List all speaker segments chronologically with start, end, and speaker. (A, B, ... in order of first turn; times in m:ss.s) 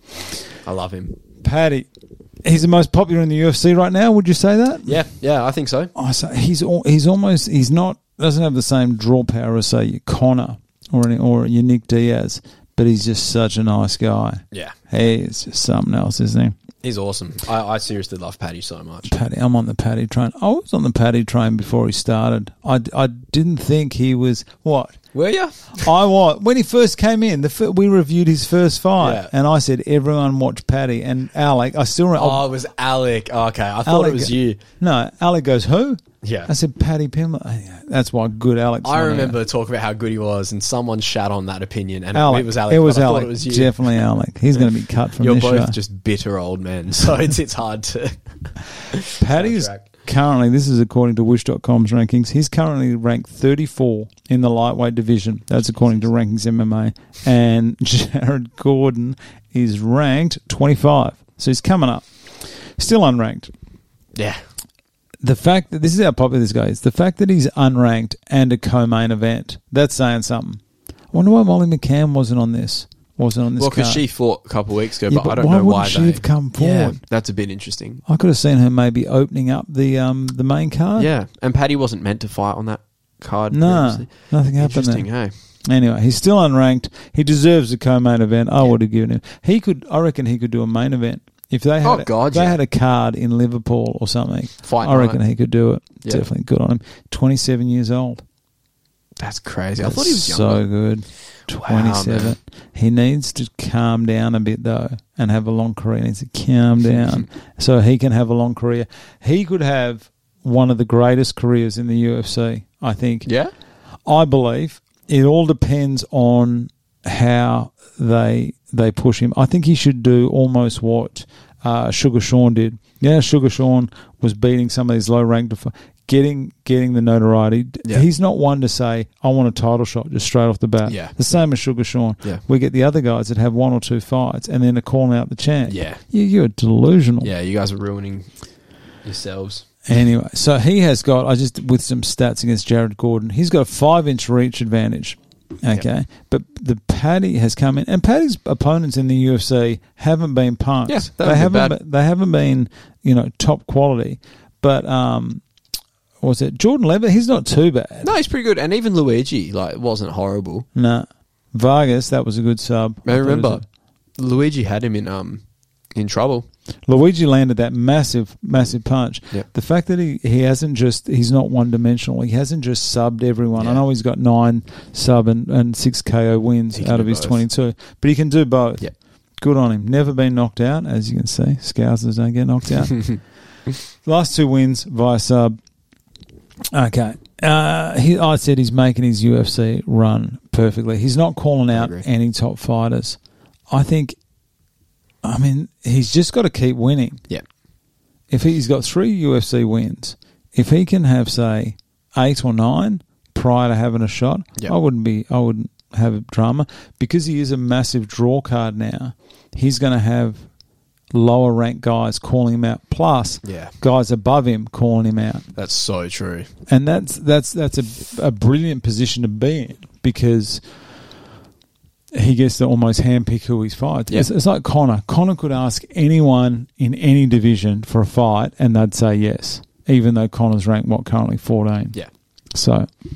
0:00.6-0:01.2 A
0:01.4-0:01.9 B
0:02.4-0:05.0 B
0:04.8-0:05.9 A
0:05.9-0:16.6 B
0:16.8-0:19.1 A
0:19.1-0:25.0 B
0:25.1-0:25.9 A
0:25.8-0:32.5 B
0:29.0-0:29.3 A
0:32.2-0:34.6 A
0:33.8-0:39.4 B
0:36.2-0:36.5 A
0:38.8-0:44.0 A
0:42.1-0:45.8 B
0:44.6-0:49.9 A
0:49.2-1:02.0 B
1:02.8-1:03.5 B
1:04.1-1:04.4 A
1:05.2-1:14.0 B
1:13.6-1:18.0 A
1:15.1-1:17.0 B
1:18.0-1:21.1 B
1:21.0-1:25.3 A
1:23.5-1:25.1 B
1:25.6-1:38.2 B
1:31.8-1:32.6 A
1:34.6-1:35.2 A
1:39.2-1:40.7 A
1:39.8-1:53.3 B
1:41.6-1:42.4 A
1:53.2-1:53.5 A
1:54.0-2:17.3 B
2:10.8-2:11.3 A
2:15.7-2:16.0 A
2:17.2-2:18.3 A
2:19.0-2:19.7 A
2:19.9-2:35.4 B
2:30.9-2:31.8 A
2:36.2-2:38.1 B
2:38.0-2:40.7 A
2:40.7-2:43.6 B
2:43.0-2:43.6 A
2:44.2-2:45.4 A
2:45.9-2:46.4 A
2:46.9-3:03.1 B
2:53.6-2:53.8 A
2:56.7-2:57.4 A
3:04.0-3:05.6 B
3:06.7-3:13.2 B
3:11.7-3:12.0 A
3:13.7-3:14.2 B
3:15.2-3:17.2 B
3:18.3-3:30.5 B
3:31.1-3:35.4 B
3:33.4-3:33.7 A
3:35.6-3:36.5 A
3:36.7-3:40.6 B
3:42.1-3:52.0 B
3:52.5-3:52.9 B